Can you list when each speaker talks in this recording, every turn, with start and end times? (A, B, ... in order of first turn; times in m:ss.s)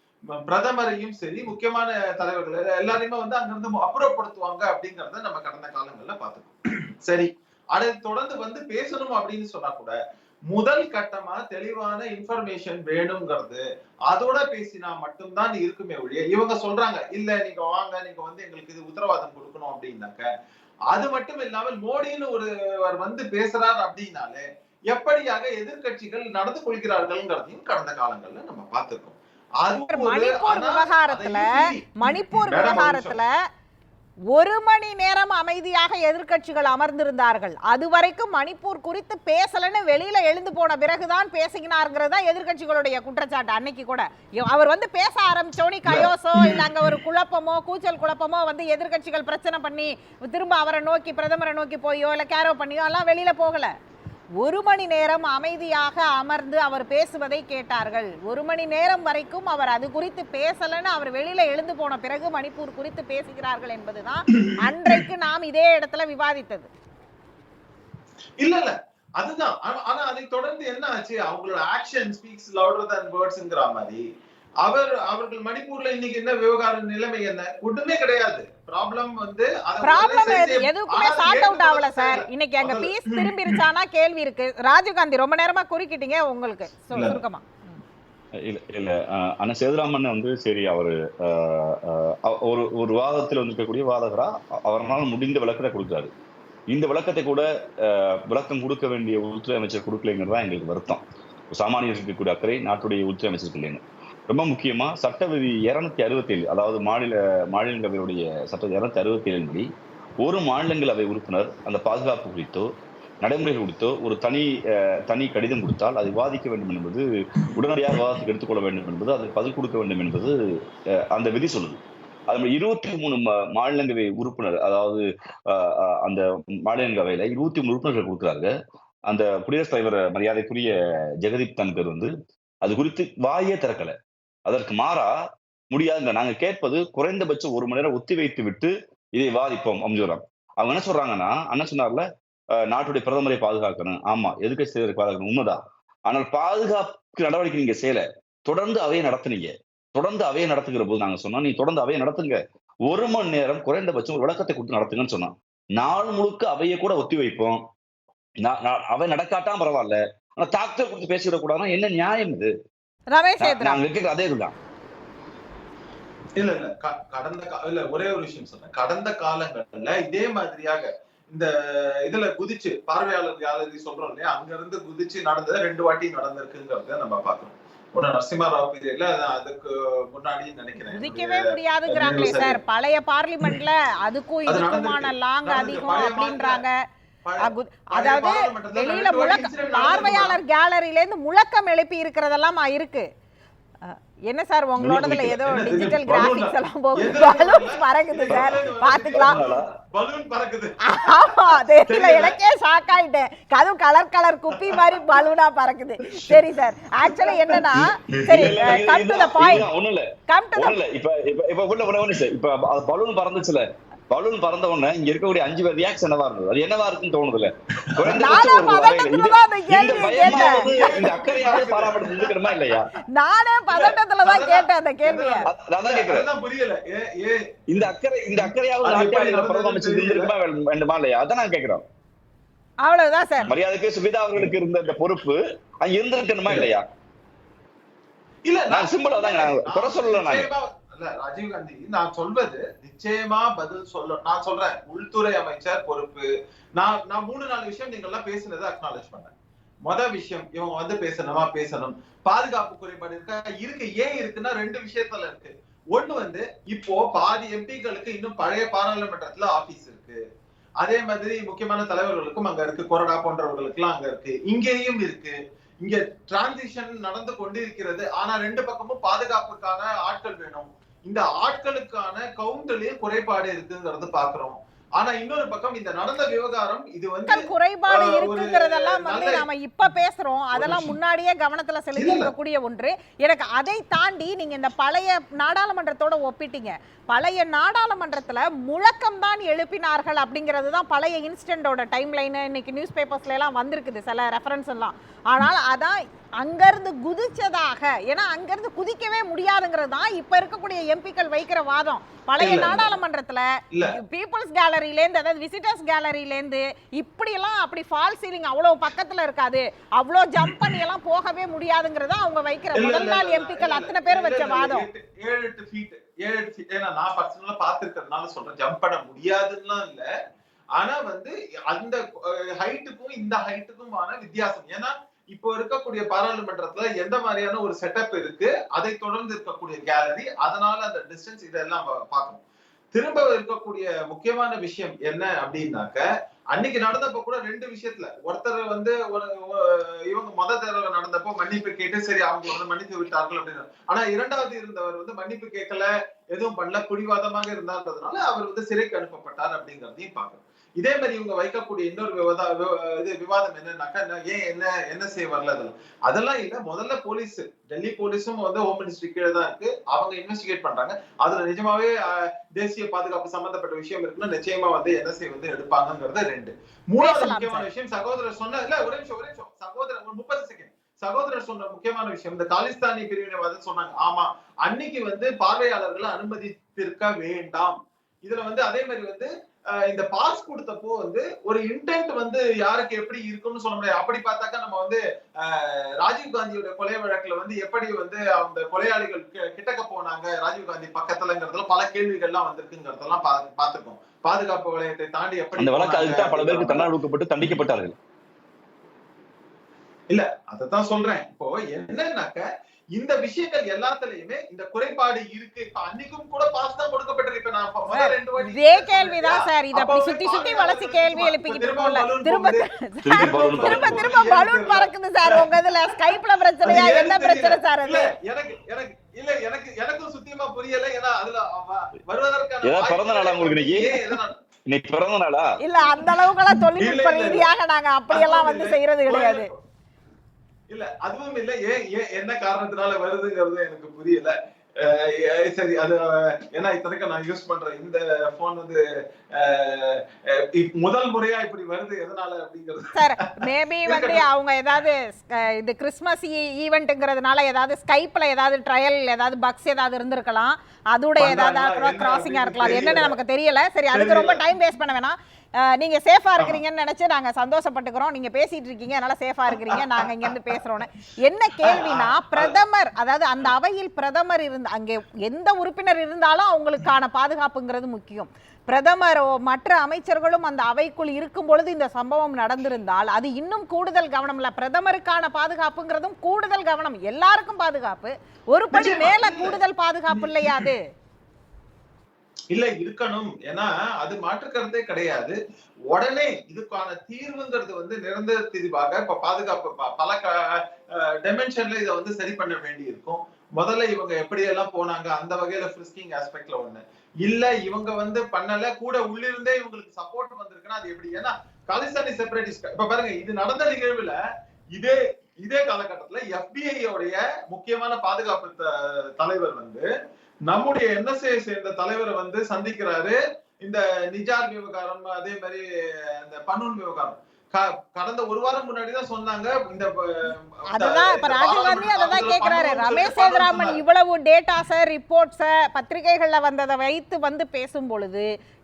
0:00.4-0:10.0 A
0:10.5-0:20.3 A
0:20.9-0:33.2 A
0:29.9-0:33.3 B
0:34.3-0:53.7 B
0:46.4-0:46.9 A
0:54.4-1:06.7 B
1:04.4-1:05.0 A
1:08.4-1:14.0 A
1:14.6-1:23.6 A
1:19.8-1:27.8 B
1:26.9-1:27.2 A
1:28.4-1:36.1 C
1:36.7-1:49.7 C
1:50.2-1:52.7 C
1:53.2-1:54.5 C
1:55.1-2:00.4 C
2:01.1-2:01.8 C
2:02.3-2:08.5 C
2:09.1-2:12.1 C
2:12.6-2:13.9 C
2:14.5-2:15.1 C
2:15.7-2:22.0 C
2:22.6-2:37.6 C
2:38.4-2:42.5 C
2:43.1-2:43.8 B
2:43.4-2:44.5 C
2:46.4-2:51.5 A
2:52.0-3:02.6 A
3:00.9-3:06.7 B
3:04.5-3:06.6 A
3:07.2-3:10.4 A
3:07.4-3:13.0 B
3:13.8-3:19.4 B
3:14.8-3:15.5 C
3:15.4-3:22.4 A
3:19.1-3:19.6 C
3:20.9-3:29.7 B
3:27.0-3:27.7 A
3:28.2-3:28.7 A
3:28.3-3:42.9 C
3:30.3-3:30.8 B
3:38.1-3:41.7 B
3:39.8-3:42.4 A
3:43.2-3:45.5 B
3:43.7-3:50.3 A
3:45.4-3:46.3 C
3:47.7-3:51.8 C
3:52.8-3:53.5 B
3:53.5-3:56.8 C
3:58.4-4:09.3 A
3:58.7-4:00.5 C
4:09.8-4:20.2 A
4:20.8-4:37.4 A
4:37.3-5:14.8 B
4:37.9-4:39.4 A
4:40.6-4:41.0 A
4:41.9-4:42.3 A
5:02.4-5:03.0 A
5:12.7-5:20.0 A
5:20.8-5:32.4 A
5:32.9-6:01.9 A
6:02.5-6:36.9 A
6:07.0-6:07.6 B
6:35.6-6:37.9 C
6:40.1-6:55.4 A
6:47.9-6:58.1 B
6:53.0-6:54.0 C
6:56.6-7:04.3 A
7:02.6-7:04.2 C
7:04.7-7:05.4 C
7:05.6-7:09.5 B
7:06.8-7:07.5 A
7:08.1-7:09.6 A
7:10.7-7:18.8 A
7:19.4-7:20.0 A
7:20.6-7:23.1 A
7:22.9-8:00.8 B
7:23.8-7:24.2 A
7:31.2-7:33.2 A
7:33.9-7:34.4 A
7:41.6-7:42.6 A
7:58.7-7:59.6 A
8:00.1-8:00.7 A
8:02.5-8:05.4 A
8:05.9-8:24.2 A
8:24.7-8:29.9 A
8:30.5-8:35.6 A
8:36.2-8:43.8 A
8:40.7-8:48.2 B